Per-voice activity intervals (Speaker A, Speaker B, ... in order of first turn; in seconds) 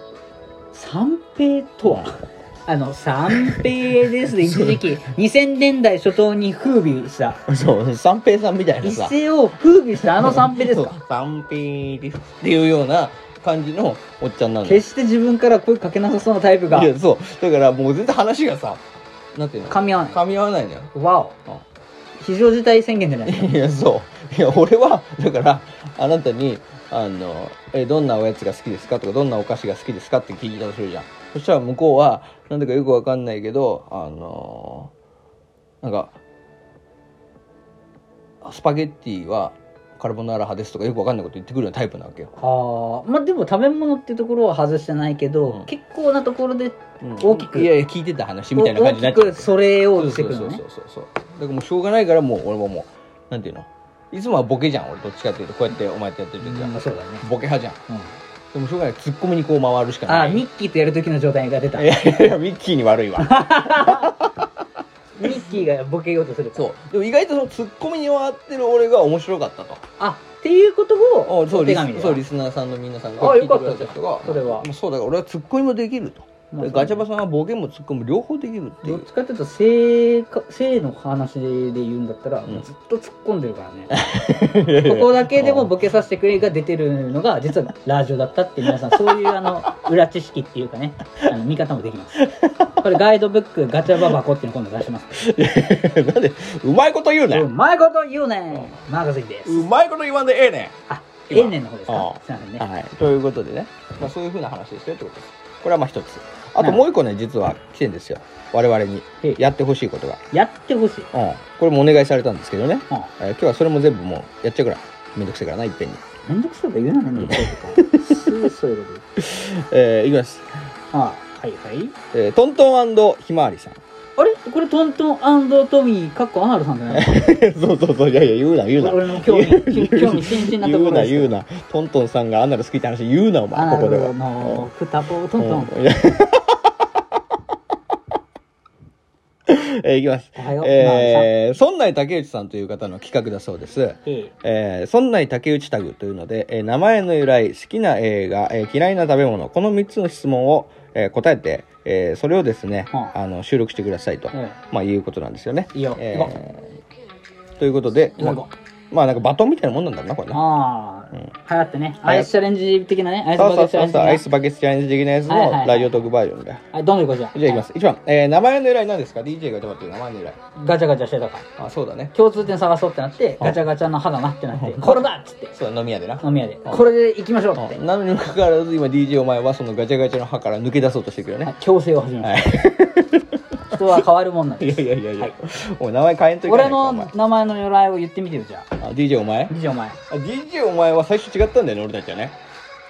Speaker A: 0.7-7.4, 8.8-10.9, 14.6-16.9, 19.7-20.2, 20.9-21.3, 22.2-23.5, 42.4-47.7, 48.5-50.6, 56.4-57.2, 60.1-62.0, 63.2-64.2, 65.2-66.7, 70.0-72.2, 73.2-74.7, 76.5-77.0, 78.8-84.0, 84.7-92.2, 92.8-95.2, 97.3-99.7, 100.9-102.6, 106.6-106.8, 110.3-111.1, 116.2-119.0, 120.9-121.9, 124.2-127.4, 128.7-131.3, 133.5-135.7, 140.3-141.3, 144.0-144.3, 154.3-154.6, 155.7-156.3, 158.2-158.5, 160.3-164.2, 165.3-166.0, 166.7-167.6, 170.6-171.5, 172.1-175.6, 176.2-177.8, 181.4-182.5, 183.7-185.3, 186.4-188.7, 189.5-190.0
Speaker B: 4.3-4.9, 7.5-9.2, 10.0-14.8, 16.7-20.9, 23.2-34.9, 35.8-36.2, 38.4-42.3, 47.0-57.8, 58.5-60.5, 61.7-64.5, 66.5-69.8, 71.2-79.1, 83.9-85.8, 88.7-89.6, 92.2-92.8, 95.1-97.5, 99.5-100.8, 101.3-110.2, 111.1-116.0, 117.2-118.3, 119.2-120.5, 122.1-123.8, 126.9-134.7, 135.4-136.7, 139.5-156.7, 157.6-160.5, 162.0-162.3, 163.3-166.7, 167.3-170.4, 171.6-172.1, 174.5-176.9, 177.5-181.6, 182.2-183.8, 184.6-187.1, 188.8-189.5, 190.1-192.4